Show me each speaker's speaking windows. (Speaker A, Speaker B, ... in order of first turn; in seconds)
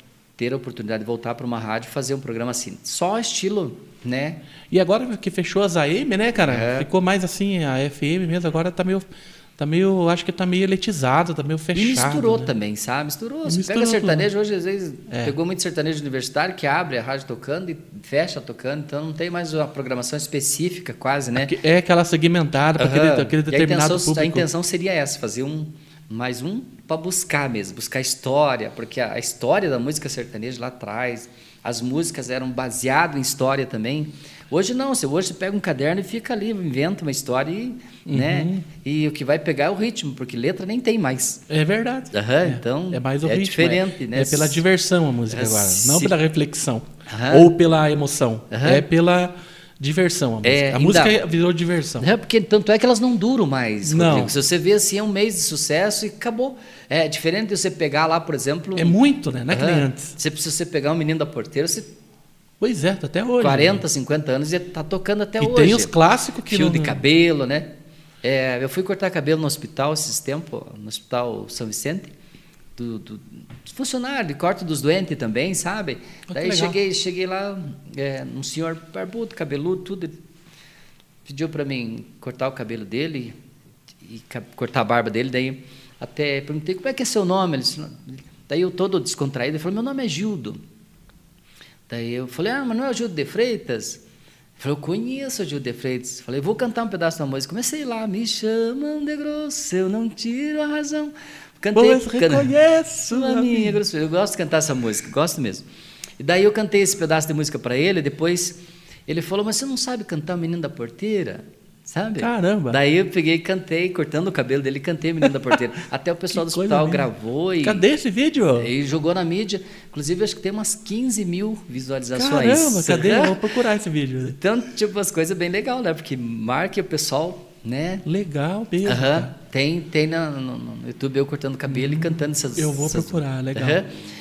Speaker A: 0.4-4.4, 6.5-6.9, 11.7-21.6, 22.8-41.4, 42.1-44.6, 45.3-46.1, 47.1-47.5, 48.5-48.9, 50.4-51.2, 52.0-59.0, 59.5-61.9, 63.4-65.9, 66.5-67.7, 68.2-72.1, 72.8-80.2, 81.3-83.3, 84.0-90.6, 91.9-94.0, 94.6-105.7, 106.2-117.8, 118.6-123.4, 124.2-128.1, 128.8-133.9
Speaker B: 4.7-12.5, 13.5-14.3, 15.1-15.3, 21.4-24.5, 38.1-38.7, 41.5-52.1, 53.9-54.3, 58.8-60.1, 62.6-63.8, 65.4-67.0, 76.3-76.8, 101.7-103.8, 112.2-112.8, 116.3-117.1, 117.6-118.7, 122.2-124.4, 128.1-129.3, 131.7-133.8